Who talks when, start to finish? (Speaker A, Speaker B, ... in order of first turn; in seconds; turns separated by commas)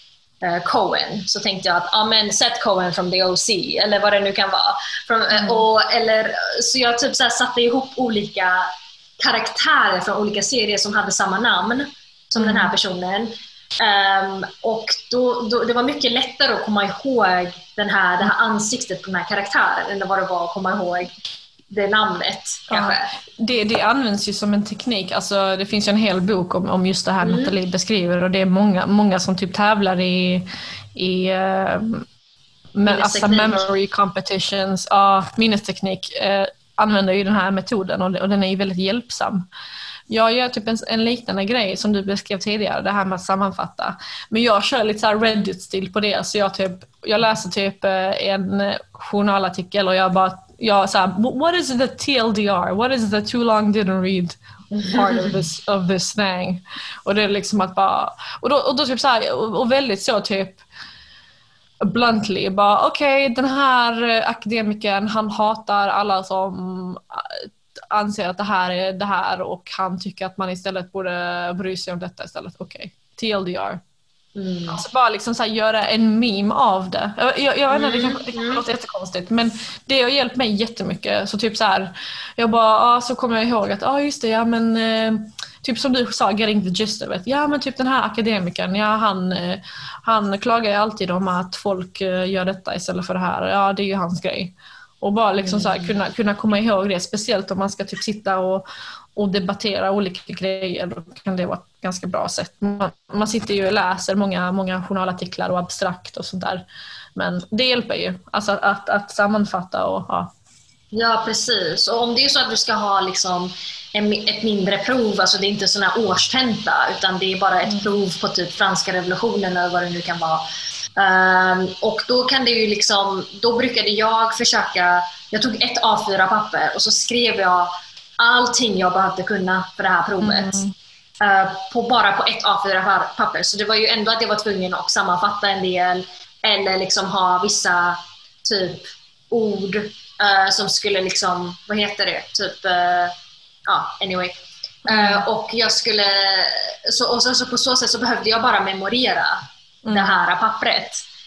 Speaker A: 0.4-21.1, Speaker B: 5.3-5.6, Speaker B: 12.3-12.7, Speaker A: 21.7-23.1, Speaker B: 22.7-32.0, Speaker A: 27.2-27.5, Speaker B: 32.8-39.5, Speaker A: 32.9-33.7, Speaker B: 40.1-54.4, Speaker A: 54.7-55.4, Speaker B: 54.9-60.6, Speaker B: 61.8-73.8, Speaker A: 74.3-74.8, Speaker B: 74.7-110.3, Speaker A: 77.7-78.6, Speaker A: 95.4-95.9, Speaker A: 110.9-120.4, Speaker A: 121.0-130.6, Speaker B: 130.2-130.7, Speaker A: 131.2-143.1, Speaker A: 143.7-144.3, Speaker A: 144.8-151.0, Speaker B: 144.9-145.2, Speaker B: 149.8-150.1